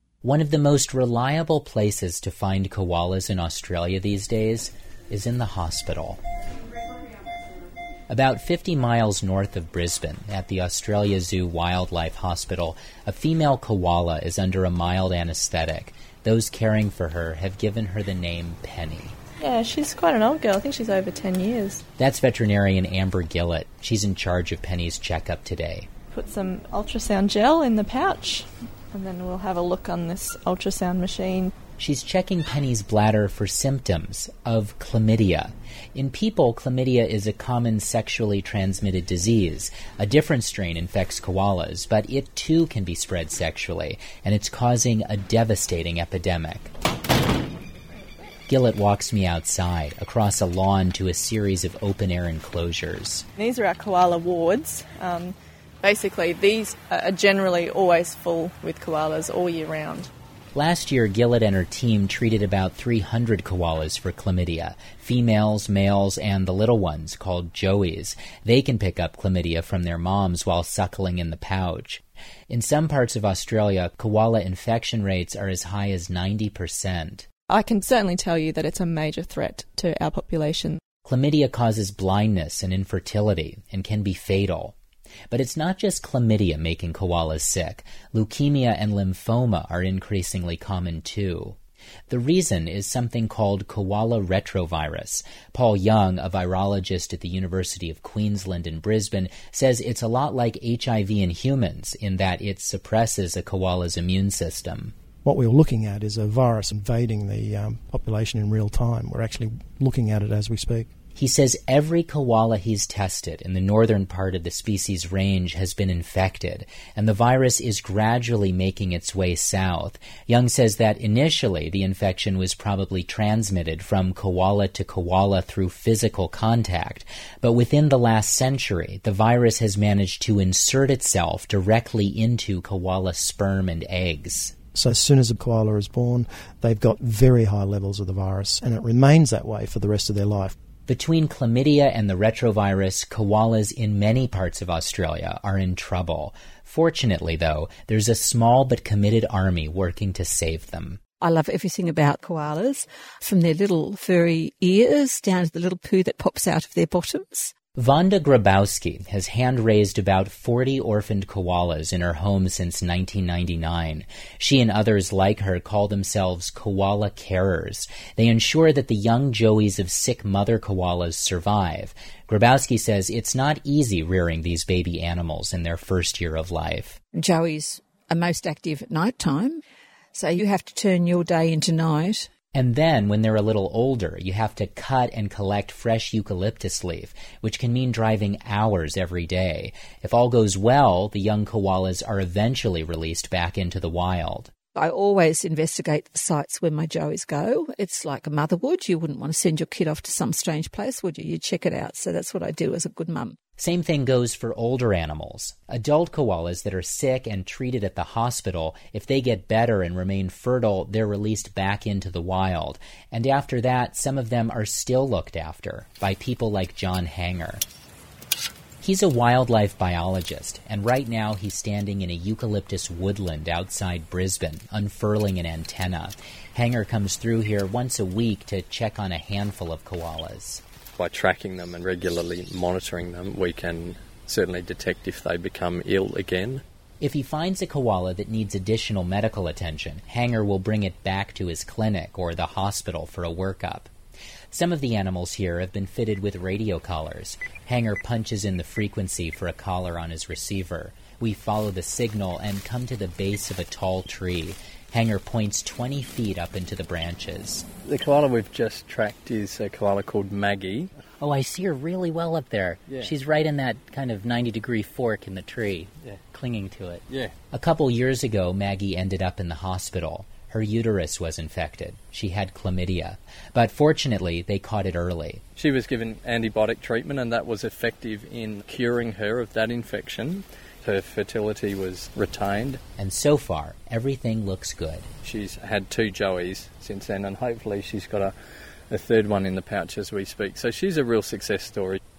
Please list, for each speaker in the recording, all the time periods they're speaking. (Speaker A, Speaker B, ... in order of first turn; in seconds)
Speaker A: 0.2-6.2, 8.1-19.2, 22.0-25.9, 31.8-46.7, 48.5-53.2, 60.5-77.3, 81.0-84.8, 85.3-91.6, 92.1-104.9, 111.2-134.5, 140.9-151.0, 157.8-177.0, 182.5-194.5, 203.6-217.6, 218.8-230.6, 237.0-243.9, 244.5-257.7, 261.2-275.4, 283.0-285.1
Speaker B: 19.4-21.8, 26.1-31.5, 53.4-60.1, 77.5-80.8
Speaker C: 105.2-110.9, 134.7-140.5
Speaker D: 151.2-157.6, 177.1-182.3, 194.7-203.4
Speaker E: 231.0-236.6, 257.9-260.9, 275.6-282.8, 285.2-288.3, 288.9-292.0